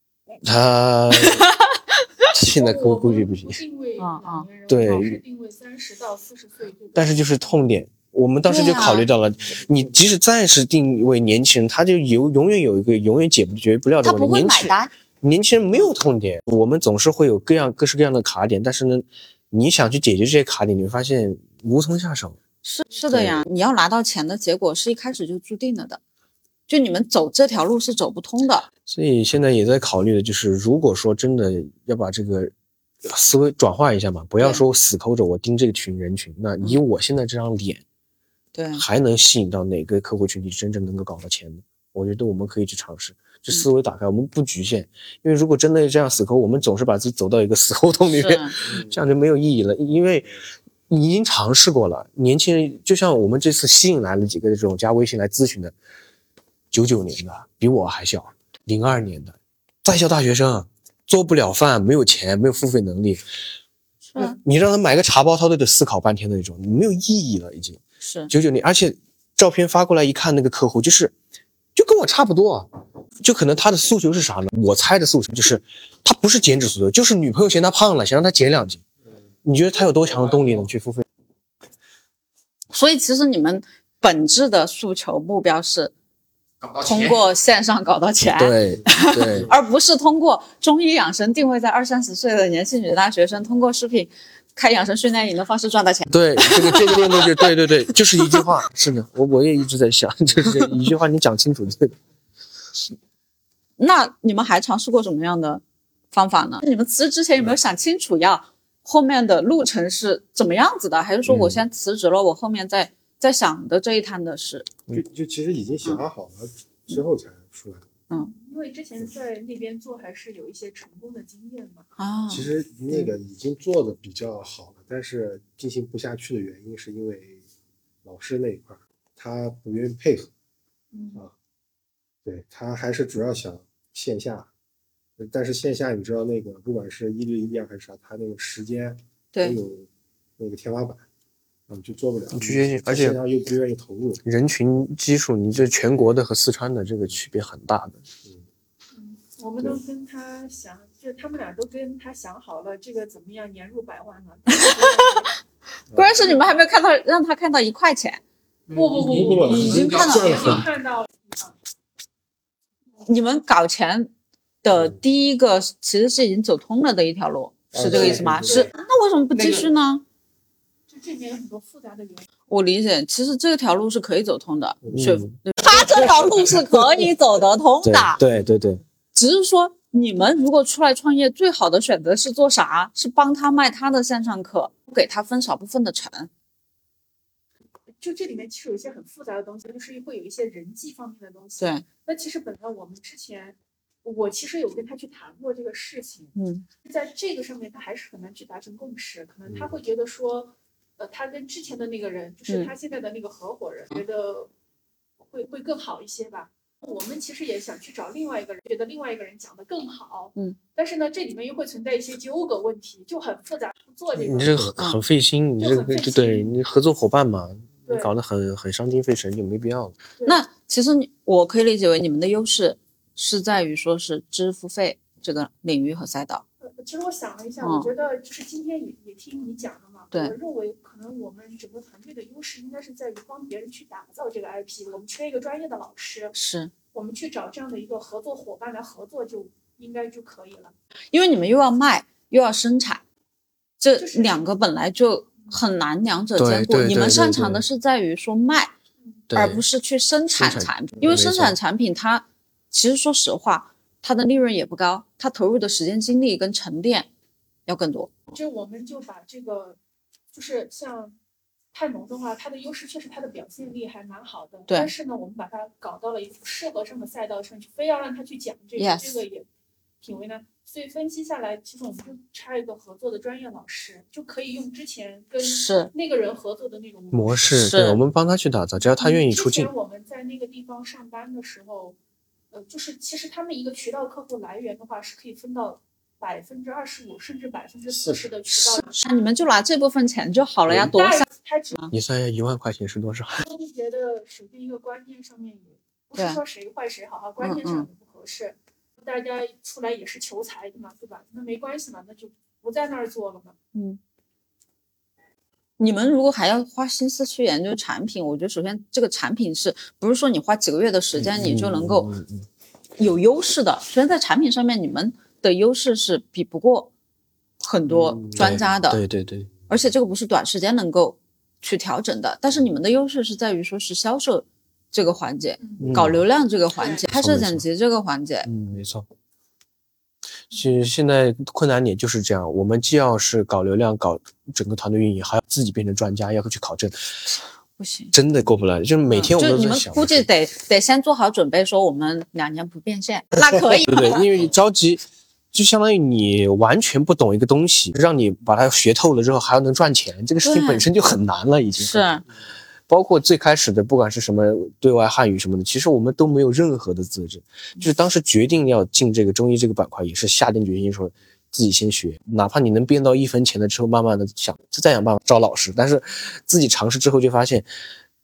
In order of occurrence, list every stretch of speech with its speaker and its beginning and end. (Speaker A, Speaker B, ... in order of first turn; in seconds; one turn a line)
Speaker A: 0.4-1.5
Speaker B: 1.1-2.2
Speaker A: 2.3-3.6
Speaker C: 2.4-7.1
Speaker B: 4.0-4.5
Speaker A: 4.7-5.2
Speaker A: 6.9-22.4
Speaker B: 8.4-9.1
Speaker B: 14.0-14.9
Speaker B: 22.6-26.0
Speaker A: 23.1-23.4
Speaker B: 26.7-28.7
Speaker A: 28.9-32.5
Speaker A: 33.0-37.8
Speaker B: 38.5-38.8
Speaker A: 38.7-50.3
Speaker B: 48.1-48.6
Speaker A: 50.9-55.7
Speaker A: 56.7-63.2
Speaker B: 64.1-64.4
Speaker A: 64.2-71.1
Speaker B: 68.0-68.3
Speaker A: 71.7-72.7
Speaker A: 73.2-78.8
Speaker A: 79.4-81.0
Speaker B: 82.7-85.9
Speaker D: 86.6-87.2
Speaker B: 86.8-97.5
Speaker A: 88.3-89.5
Speaker A: 96.1-101.9
Speaker B: 103.8-105.6
Speaker B: 106.1-114.7
Speaker A: 111.3-111.6
Speaker E: 114.9-117.8
Speaker C: 118.1-121.9
Speaker B: 122.0-123.1
Speaker E: 122.3-127.4
Speaker E: 128.0-130.3
Speaker C: 130.9-131.2
Speaker E: 132.2-134.5
Speaker E: 135.2-141.0
Speaker E: 141.7-144.2
Speaker A: 142.3-143.2
Speaker A: 144.2-148.0
Speaker C: 148.9-155.4
Speaker B: 154.5-155.3
Speaker E: 155.9-156.3
Speaker B: 155.9-158.2
Speaker C: 156.2-156.4
Speaker D: 158.7-160.6
Speaker C: 158.7-161.5
Speaker E: 158.9-160.7
Speaker B: 159.3-160.6
Speaker B: 163.0-164.1
Speaker B: 164.6-170.0
Speaker E: 167.7-168.7
Speaker C: 167.9-168.7
Speaker D: 169.3-169.7
Speaker C: 170.9-172.3
Speaker B: 172.5-178.2
Speaker E: 174.8-175.2
Speaker A: 174.9-175.3
Speaker A: 177.8-178.8
Speaker B: 179.1-186.3
Speaker C: 188.0-196.3
Speaker B: 191.6-191.8
Speaker B: 196.3-196.6
Speaker C: 196.8-204.5
Speaker E: 199.5-199.7
Speaker C: 205.3-214.7
Speaker A: 214.1-220.0
Speaker C: 215.6-216.5
Speaker C: 217.9-218.1
Speaker B: 220.2-226.4
Speaker C: 226.6-236.3
Speaker B: 227.6-227.9
Speaker B: 236.3-236.7
Speaker C: 236.9-240.7
Speaker B: 241.1-243.0
Speaker B: 243.8-248.7
Speaker C: 244.0-244.4
Speaker A: 246.4-247.6
Speaker A: 249.3-249.6
Speaker B: 249.3-257.1
Speaker A: 250.3-251.6
Speaker B: 257.6-258.1
Speaker C: 258.3-259.8
Speaker C: 260.3-261.1
Speaker C: 261.7-269.4
Speaker B: 268.8-269.2
Speaker C: 270.0-277.6
Speaker B: 275.4-275.9
Speaker A: 277.1-279.7
Speaker B: 277.5-278.0
Speaker C: 278.9-282.0
Speaker C: 282.5-289.0
Speaker E: 287.9-288.3
Speaker B: 288.5-291.9
Speaker C: 290.8-291.8
Speaker A: 291.9-293.4
Speaker C: 293.4-303.5
Speaker B: 297.4-297.9
Speaker B: 303.7-304.0
Speaker B: 305.8-312.1
Speaker A: 311.1-312.4
Speaker B: 313.0-316.9
Speaker B: 317.6-319.0
Speaker E: 318.1-318.5
Speaker A: 318.3-319.5
Speaker B: 319.7-328.5
Speaker C: 325.6-325.9
Speaker A: 325.8-326.2
Speaker A: 327.1-327.6
Speaker A: 328.4-329.1
Speaker A: 330.5-337.0
Speaker B: 337.8-338.1
Speaker A: 338.1-340.3
Speaker B: 339.1-344.3
Speaker A: 343.7-345.0
Speaker A: 345.5-352.2
Speaker B: 350.4-350.9
Speaker B: 351.8-352.2
Speaker A: 352.9-367.6